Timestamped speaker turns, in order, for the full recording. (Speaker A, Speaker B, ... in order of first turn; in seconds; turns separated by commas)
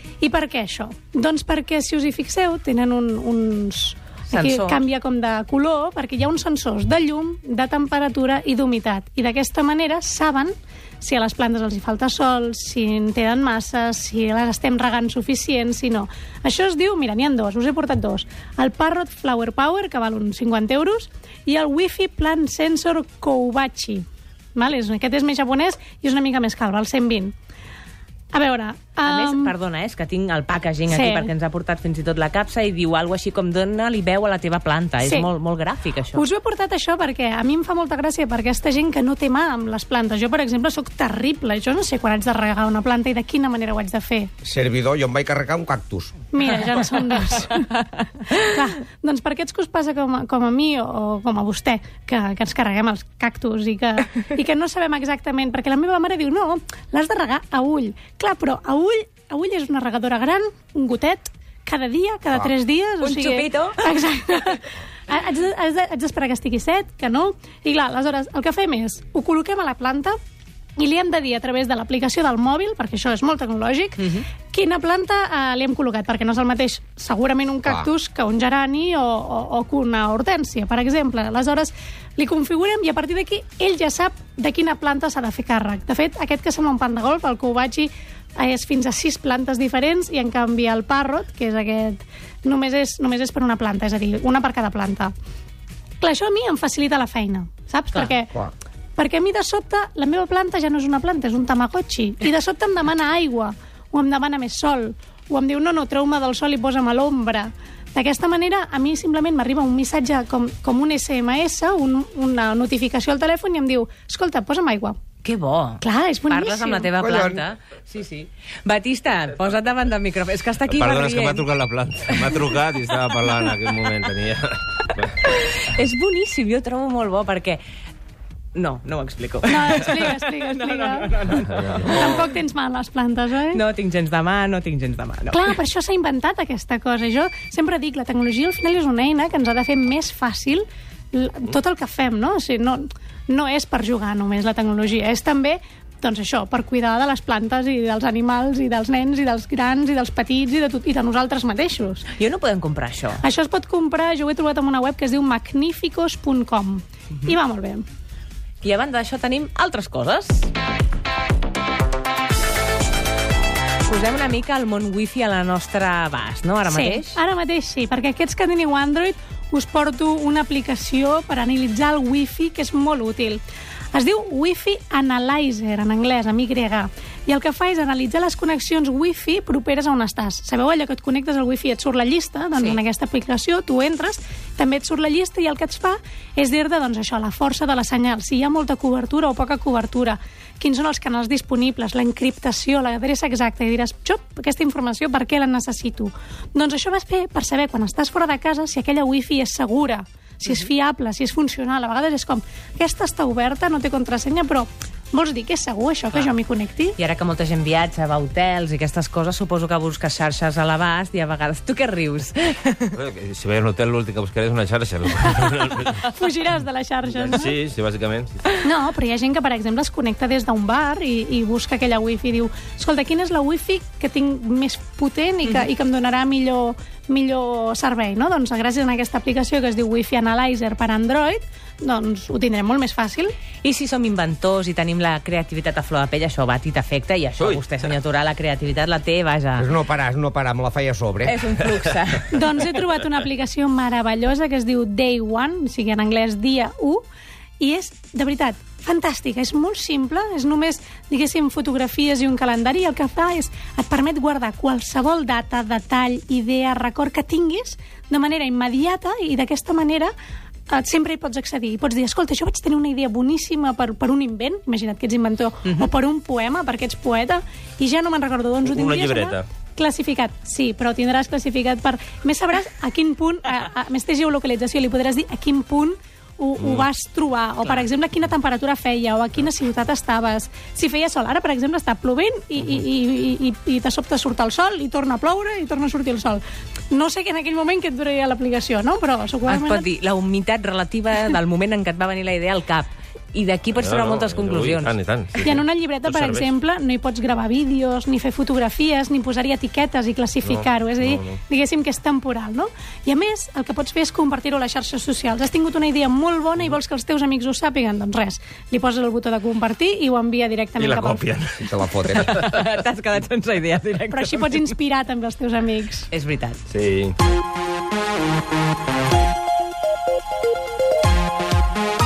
Speaker A: 0.2-24.0, Speaker B: 4.3-4.8, Speaker A: 24.6-27.3, Speaker A: 28.3-29.5, Speaker B: 29.0-36.2, Speaker A: 30.9-31.3, Speaker A: 35.0-35.3, Speaker A: 36.1-44.3, Speaker C: 44.4-46.1, Speaker A: 46.3-70.2, Speaker B: 63.0-63.9, Speaker A: 70.8-95.1, Speaker A: 96.0-115.0, Speaker B: 115.2-121.5, Speaker A: 115.8-116.9, Speaker C: 117.0-117.4, Speaker D: 120.7-125.1, Speaker B: 123.2-123.5, Speaker B: 125.2-127.6, Speaker B: 128.5-132.2, Speaker A: 129.4-131.2, Speaker A: 131.8-133.6, Speaker B: 133.5-135.5, Speaker A: 135.3-152.0, Speaker B: 152.1-153.2, Speaker A: 153.2-157.8, Speaker B: 158.6-160.5, Speaker B: 163.8-167.2, Speaker A: 166.7-173.4, Speaker A: 173.9-207.0, Speaker B: 207.0-212.9, Speaker D: 212.9-216.1, Speaker A: 216.0-217.6, Speaker D: 217.1-218.4, Speaker A: 218.6-233.3, Speaker B: 233.6-239.7, Speaker C: 239.6-241.3, Speaker B: 241.2-242.4, Speaker A: 242.3-247.0, Speaker A: 247.6-260.1, Speaker A: 260.7-289.9, Speaker D: 268.6-269.4, Speaker B: 289.5-294.9, Speaker D: 293.8-296.5, Speaker A: 295.4-311.2, Speaker D: 300.4-301.4, Speaker D: 310.8-311.7, Speaker C: 311.6-312.3, Speaker B: 312.1-314.7, Speaker A: 314.1-316.1, Speaker B: 316.1-316.6, Speaker D: 316.7-317.1